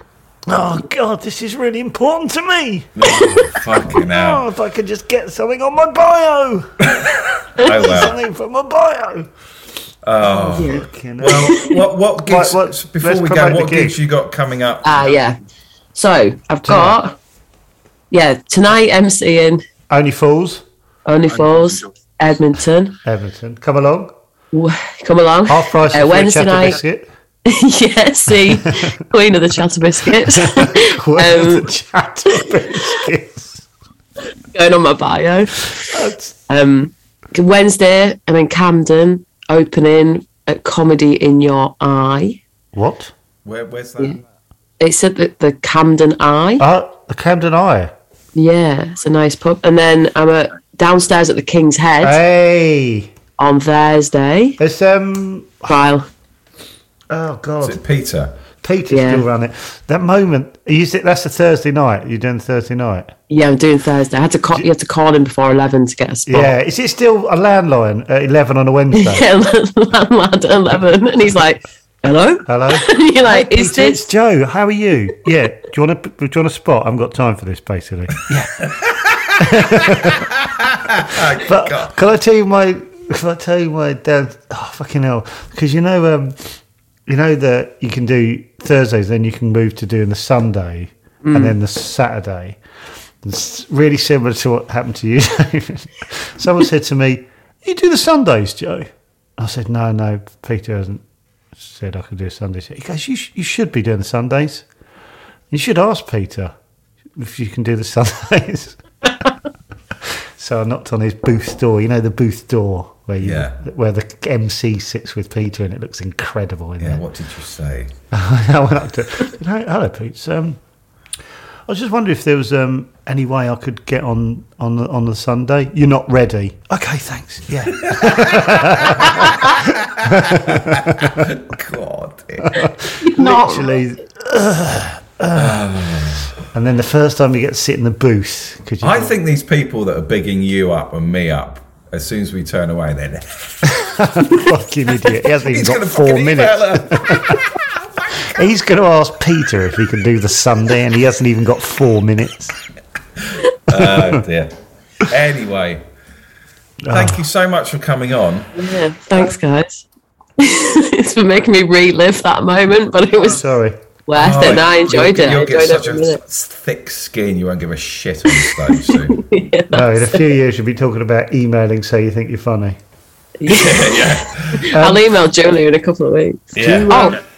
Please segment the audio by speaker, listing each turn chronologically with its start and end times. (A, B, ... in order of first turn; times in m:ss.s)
0:00.5-0:03.0 A
0:03.0-0:04.4 B
0:03.9-0:06.7 A
0:06.9-0:08.2 B
0:07.6-0:09.3 A
0:10.0-0:15.2 B
0:10.2-0:11.7 A
0:10.6-0:11.8 C
0:12.2-0:14.0 A
0:14.8-0:15.4 C
0:16.0-0:17.2 C
0:16.6-0:17.0 A
0:18.1-0:19.6 C
0:19.9-0:20.6 A
0:21.1-0:23.0 C
0:23.0-0:24.1 A
0:24.5-0:26.8 C
0:25.4-0:27.1 A
0:27.5-0:31.7 C
0:28.4-0:28.9 A
0:30.3-0:33.7 A
0:34.5-0:35.9 C
0:35.9-0:36.4 A
0:36.5-0:42.4 C
0:42.7-0:43.1 A
0:43.4-0:44.2 B
0:44.8-0:46.6 C
0:46.6-0:47.9 A
0:48.4-0:52.2 C
0:52.0-0:53.1 A
0:53.4-0:54.6 C
0:54.6-0:55.8 A
0:55.7-0:56.1 C
0:57.1-0:57.8 A
0:57.6-0:58.3 B
0:58.6-1:03.1 A
0:58.9-0:59.2 C
1:03.3-1:06.5 C
1:06.3-1:09.2 A
1:08.9-1:14.1 C
1:12.5-1:18.5 A
1:18.7-1:21.9 B
1:19.4-1:20.3 A
1:21.4-1:26.6 A
1:27.1-1:32.6 A
1:31.2-1:31.6 C
1:33.2-1:41.0 A
1:41.6-1:44.7 A
1:45.5-1:46.5 A
1:47.2-1:48.8 A
1:50.4-1:57.0 A
1:53.2-1:53.6 B
1:56.8-1:57.9 B
1:58.1-2:00.6 A
2:01.7-2:11.2 A
2:07.8-2:12.7 B
2:12.5-2:15.7 A
2:13.0-2:13.8 C
2:15.4-2:16.4 B
2:16.4-2:19.2 A
2:18.8-2:24.0 B
2:23.7-2:27.5 A
2:25.4-2:28.2 B
2:28.2-2:32.6 A
2:33.2-2:35.8 B
2:33.8-2:34.2 A
2:36.8-2:37.2 A
2:36.9-2:38.5 B
2:38.6-2:39.8 C
2:40.4-2:43.4 C
2:43.2-2:44.6 A
2:44.1-2:46.2 C
2:44.1-2:49.3 B
2:48.3-2:50.3 C
2:49.7-2:52.8 A
2:53.4-2:57.2 C
2:53.5-2:54.6 B
2:54.7-2:55.1 A
2:56.6-2:57.2 B
2:56.6-2:57.2 A